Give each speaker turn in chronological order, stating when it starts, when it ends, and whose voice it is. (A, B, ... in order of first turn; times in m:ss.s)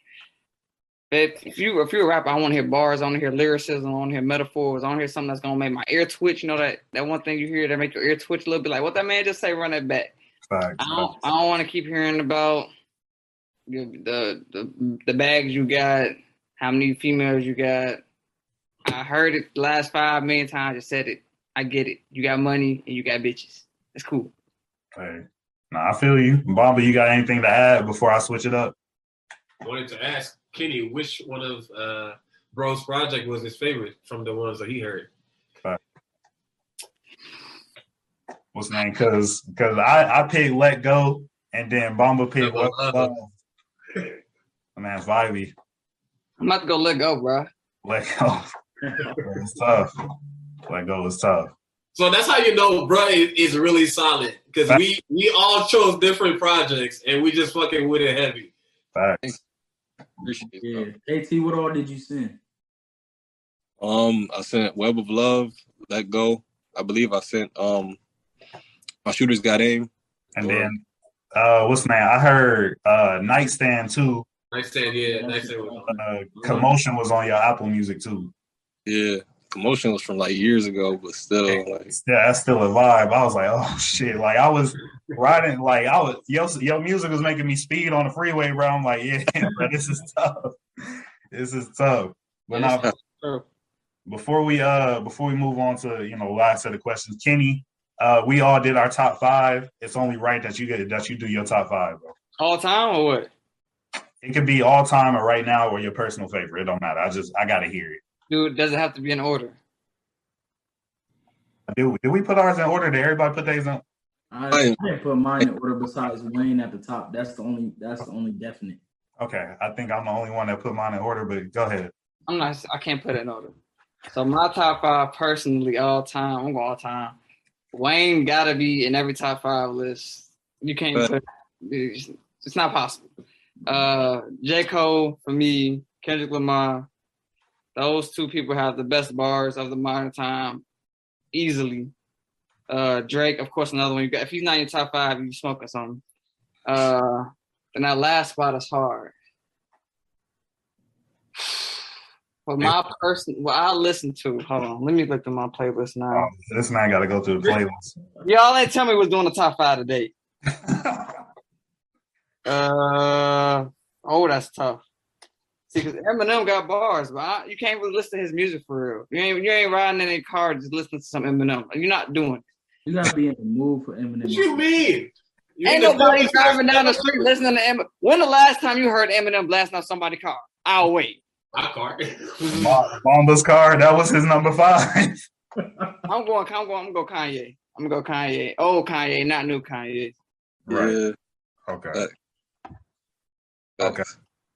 0:01.1-0:10.1 A
0:10.4-0:11.2 B
0:10.8-0:12.7 A
0:13.7-0:18.0 A
0:18.8-0:24.3 A
0:24.9-0:28.7 B
0:29.6-0:35.1 C
0:38.5-0:43.3 B
0:42.4-0:43.1 C
0:44.8-0:45.5 B
0:46.4-0:47.5 A
0:47.8-0:48.5 B
0:48.8-0:49.2 D
0:49.2-0:49.9 B
0:50.7-0:51.5 B
0:51.9-0:58.5 C
0:58.9-0:59.4 B
1:00.2-1:00.9 E
1:00.6-1:02.4 D
1:03.8-1:08.0 E
1:09.0-1:10.7 E
1:10.4-1:10.8 B
1:11.3-1:14.2 B
1:14.5-1:16.0 C
1:15.0-1:16.7 D
1:15.9-1:18.3 B
1:18.8-1:21.9 E
1:21.5-1:32.9 B
1:32.5-1:33.4 A
1:34.1-1:42.1 B
1:42.4-1:43.3 A
1:44.2-1:48.0 B
1:48.3-1:49.6 A
1:51.7-1:53.8 B
1:54.3-1:58.8 D
1:54.5-1:54.8 E
1:59.2-2:01.9 B
2:02.3-2:03.6 A
2:04.1-2:07.2 A
2:07.7-2:13.1 A
2:13.6-2:16.8 A
2:17.7-2:20.6 A
2:21.3-2:21.9 A
2:22.7-2:26.0 A
2:26.6-2:29.1 A
2:32.4-2:36.3 A
2:36.1-2:37.9 B
2:38.2-2:40.1 A
2:40.6-2:41.2 B
2:42.4-2:44.8 A
2:45.7-2:52.4 A
2:52.8-2:54.6 D
2:54.2-2:57.3 C
2:55.6-3:01.2 A
3:01.5-3:02.8 C
3:02.5-3:05.2 B
3:05.6-3:06.0 D
3:06.1-3:10.1 A
3:10.7-3:11.0 B
3:10.7-3:11.2 E
3:11.7-3:12.0 B
3:13.8-3:14.0 E
3:13.8-3:14.0 B